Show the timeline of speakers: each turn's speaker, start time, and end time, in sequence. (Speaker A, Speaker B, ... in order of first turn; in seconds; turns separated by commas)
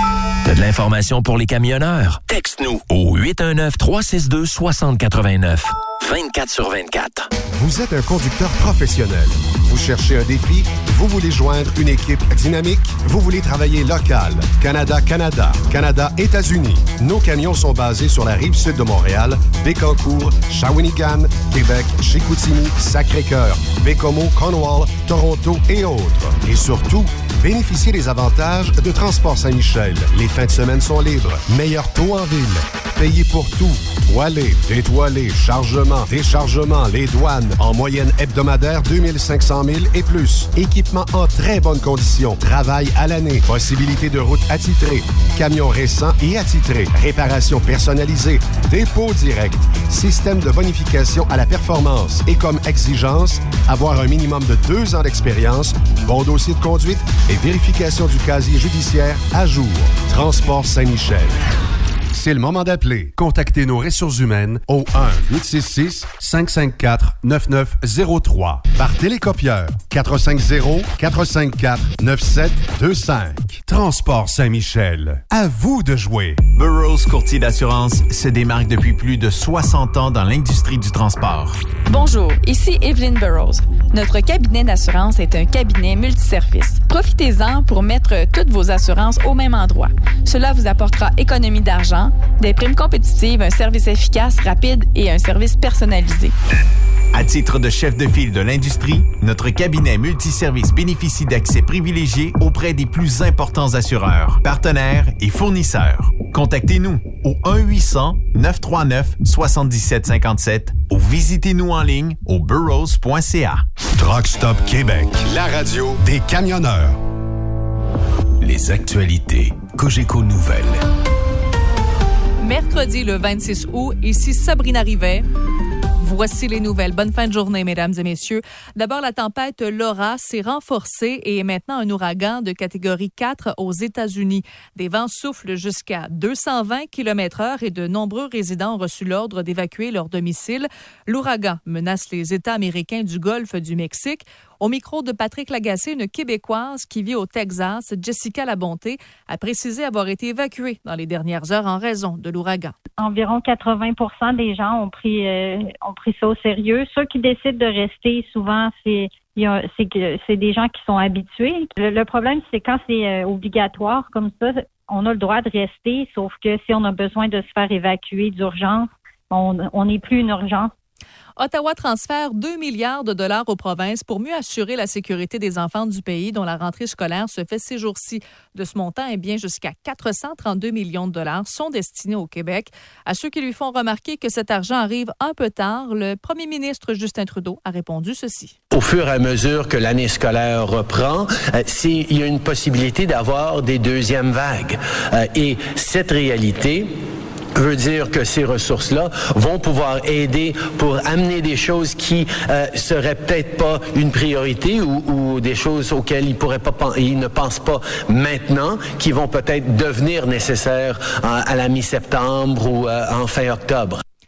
Speaker A: 0.5-7.3, Speaker B: 7.5-61.4, Speaker B: 62.1-76.4, Speaker C: 76.6-81.6, Speaker D: 81.9-96.4, Speaker C: 97.1-113.7, Speaker B: 114.0-117.0, Speaker C: 118.4-120.8, Speaker E: 122.4-125.3, Speaker E: 126.0-152.8, Speaker F: 153.0-170.7, Speaker E: 171.4-188.6, Speaker G: 188.7-196.9, Speaker G: 197.6-214.0